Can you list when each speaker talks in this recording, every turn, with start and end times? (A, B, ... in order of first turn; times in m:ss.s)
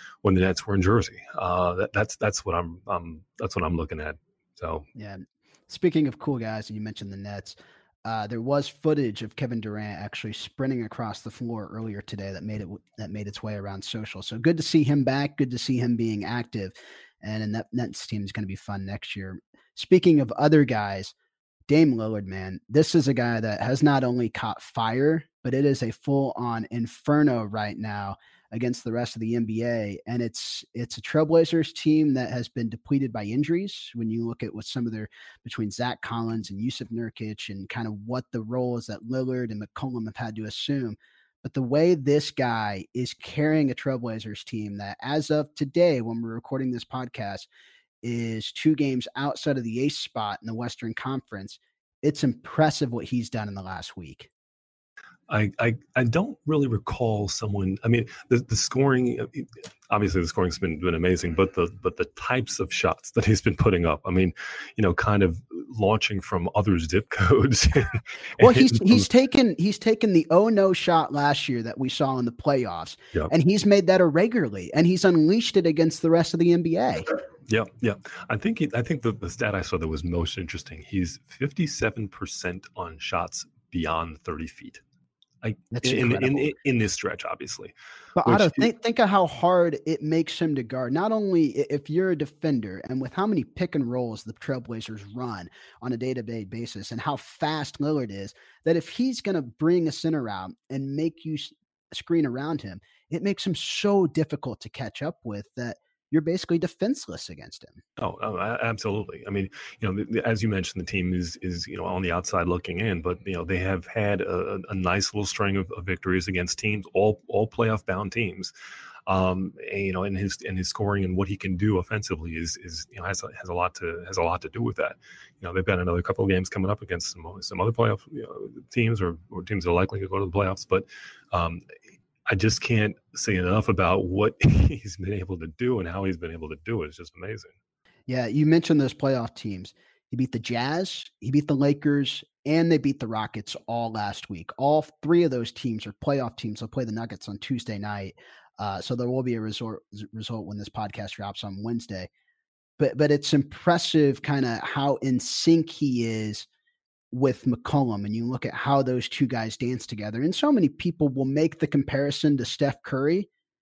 0:00.2-0:04.8 A
0:04.9-0:21.1 B
0:21.7-0:47.5 B
0:48.0-0:54.3 B
0:55.3-1:09.0 A
1:08.4-1:17.1 B
1:17.5-1:24.8 A
1:25.4-1:27.7 A
1:25.7-1:26.5 B
1:28.2-1:47.8 B
1:28.2-1:28.7 A
1:48.0-1:58.5 A
1:59.1-2:11.6 A
2:12.3-2:17.5 A
2:18.1-2:32.1 B
2:32.8-2:36.5 B
2:37.1-2:43.3 B